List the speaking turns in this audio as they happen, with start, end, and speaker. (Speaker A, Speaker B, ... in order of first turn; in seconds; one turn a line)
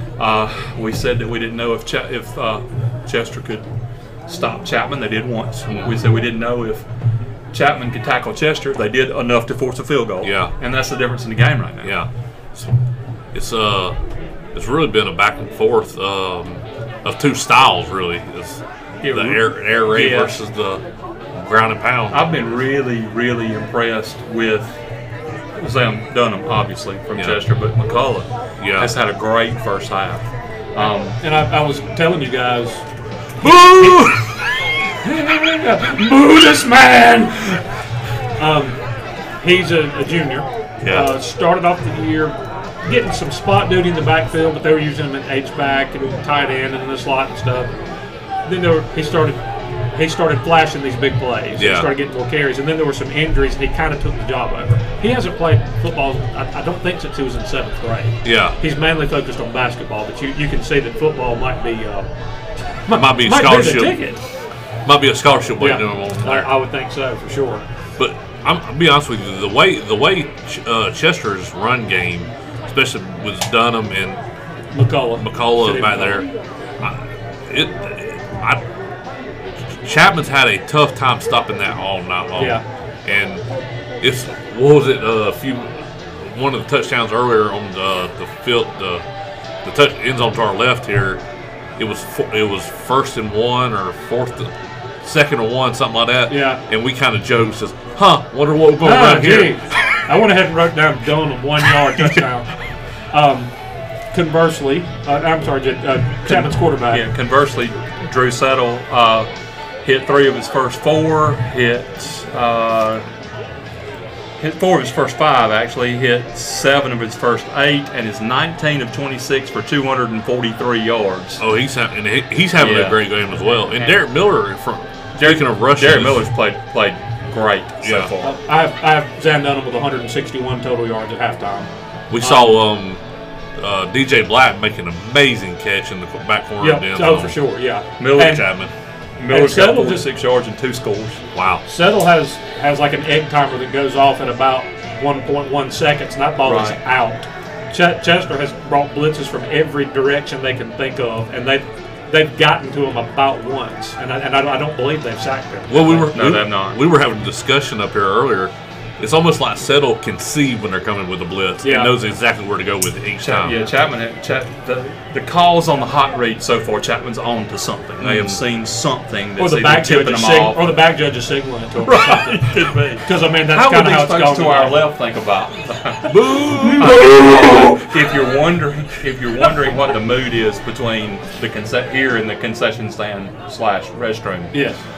Speaker A: 0.2-3.7
Speaker A: 4.3-6.8
Speaker A: 7.5-12.0
Speaker B: 10.2-10.5
Speaker B: 11.8-12.8
Speaker B: 13.3-14.0
Speaker B: 14.5-20.8
Speaker A: 19.0-20.4
Speaker B: 21.4-22.2
Speaker A: 22.1-24.7
Speaker A: 25.6-31.2
Speaker B: 28.6-28.9
Speaker C: 30.8-32.8
Speaker B: 33.4-34.3
Speaker C: 33.4-34.0
Speaker C: 35.0-37.6
Speaker C: 38.4-38.8
Speaker C: 39.4-47.7
Speaker B: 40.8-41.1
Speaker C: 48.5-49.4
Speaker C: 49.9-62.1
Speaker B: 51.6-51.9
Speaker B: 58.2-58.6
Speaker C: 62.9-64.2
Speaker B: 62.9-64.0
Speaker B: 64.8-66.5
Speaker C: 65.6-67.7
Speaker B: 68.0-74.2
Speaker C: 74.7-76.3
Speaker B: 75.2-76.3
Speaker B: 76.8-78.6
Speaker B: 79.7-83.5
Speaker C: 82.4-82.6
Speaker B: 84.0-89.0
Speaker B: 89.6-91.2
Speaker B: 91.8-94.5
Speaker B: 95.0-99.6
Speaker C: 96.3-96.6
Speaker C: 98.8-102.5
Speaker C: 103.1-103.5
Speaker C: 104.1-107.1
Speaker A: 106.2-109.3
Speaker A: 109.8-113.1
Speaker A: 114.4-121.4
Speaker B: 121.4-126.3
Speaker A: 122.6-124.0
Speaker A: 125.2-128.4
Speaker B: 127.8-128.1
Speaker C: 128.2-132.6
Speaker B: 132.1-133.0
Speaker B: 133.6-137.3
Speaker C: 136.6-138.4
Speaker A: 138.0-138.4
Speaker B: 138.2-138.7
Speaker A: 139.2-141.2
Speaker C: 139.3-140.1
Speaker B: 141.3-141.6
Speaker C: 141.6-156.1
Speaker A: 146.4-146.8
Speaker B: 155.7-163.6
Speaker A: 156.1-156.8
Speaker C: 161.6-161.9
Speaker A: 163.2-170.8
Speaker B: 168.0-168.4
Speaker C: 169.4-174.9
Speaker A: 171.8-184.6
Speaker B: 176.1-177.1
Speaker C: 176.8-177.8
Speaker C: 184.5-184.8